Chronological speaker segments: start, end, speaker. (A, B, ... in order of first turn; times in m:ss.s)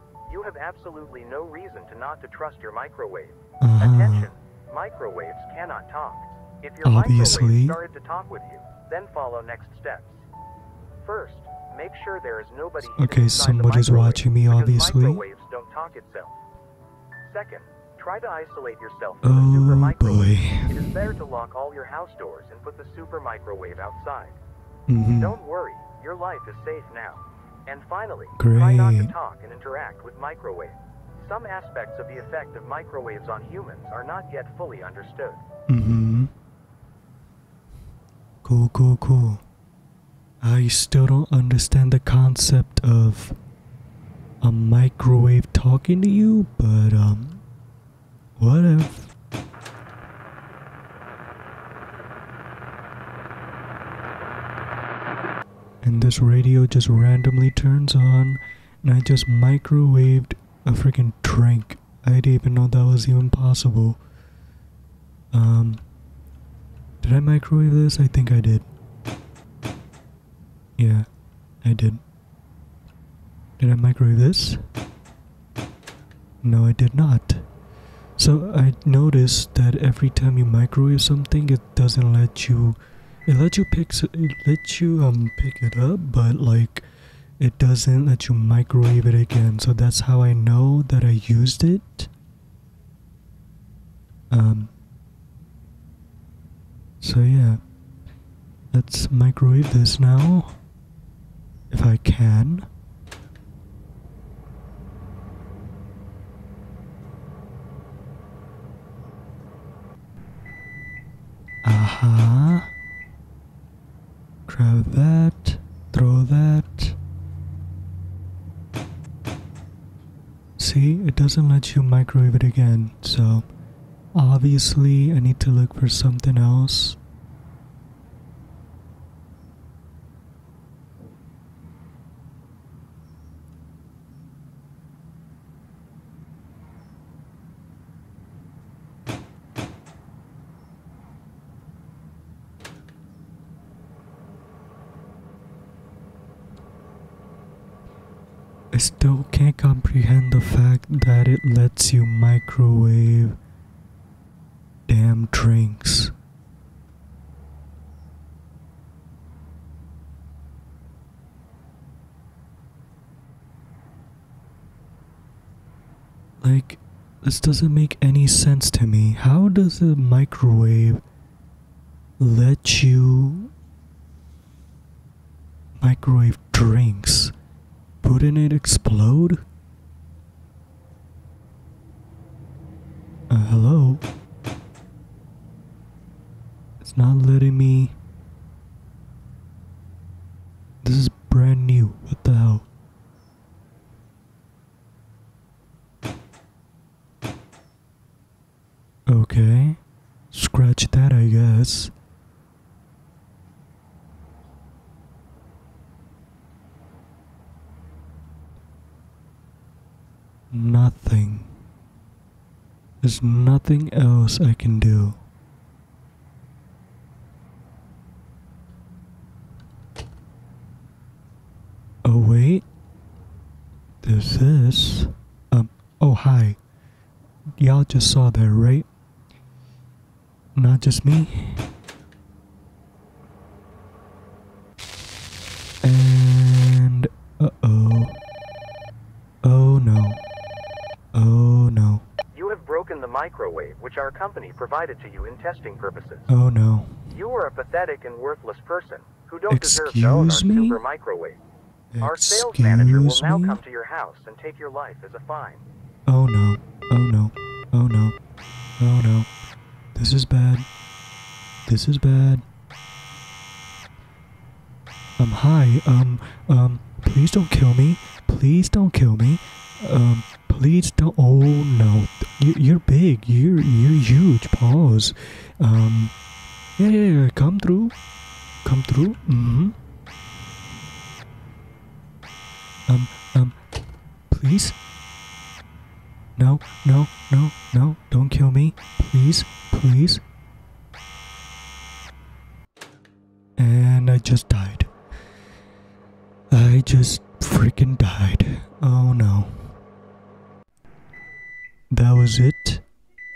0:00.3-0:10.3 A
0:03.6-0:04.3 B
0:06.8-0:07.8 B
0:11.0-0:16.4 A
0:13.0-0:15.2 B
0:17.2-0:24.4 A
0:19.2-0:20.7 B
0:24.9-0:25.4 B
0:25.1-0:35.4 A
0:28.4-0:29.1 B
0:35.7-0:36.3 B
0:38.4-0:39.4 B
0:40.4-0:43.3 B
0:44.4-0:47.4 B
0:48.4-0:49.1 B
0:55.8-1:04.0 B
1:05.3-1:05.8 B
1:07.0-1:08.6 B
1:10.8-1:11.1 B
1:11.6-1:12.0 B
1:13.6-1:14.6 B
1:16.4-1:17.5 B
1:18.2-1:26.9 B
1:27.4-1:32.1 B
1:34.3-1:34.7 B
1:37.0-1:37.6 B
1:38.7-1:40.6 B
1:41.7-1:42.7 B
1:51.6-1:52.7 B
1:54.5-1:57.0 B
2:00.6-2:03.5 B
2:04.1-2:07.0 B
2:28.7-2:33.4 B
2:34.9-2:36.1 B
2:46.4-2:51.0 B
2:52.2-2:53.5 B
2:55.8-2:57.3 B
2:58.0-2:59.4 B
3:03.3-3:04.0 B
3:06.8-3:07.9 B
3:10.8-3:12.7 B
3:19.1-3:19.8 B
3:20.3-3:21.9 B
3:30.5-3:31.5 B
3:33.0-3:35.2 B
3:42.0-3:42.6 B
3:44.0-3:46.6 B
3:47.6-3:48.9 B
3:50.5-3:51.7 B
3:55.8-3:58.2 B
3:59.4-4:00.2 B
4:01.1-4:02.0 B
4:02.3-4:06.3 A
4:06.3-4:07.0 B
4:07.1-4:11.4 A
4:09.5-4:10.8 B
4:11.9-4:13.6 B
4:12.0-4:15.6 A
4:16.1-4:18.2 B
4:18.8-4:19.3 B
4:19.9-4:20.6 B
4:21.6-4:22.4 B
4:25.2-4:36.1 B
4:36.8-4:37.9 B
4:38.6-4:39.8 B
4:42.9-4:43.5 B
4:44.3-4:44.8 B
4:46.4-4:50.2 B
4:53.6-4:54.9 B
4:56.5-4:59.7 B
5:01.9-5:02.8 B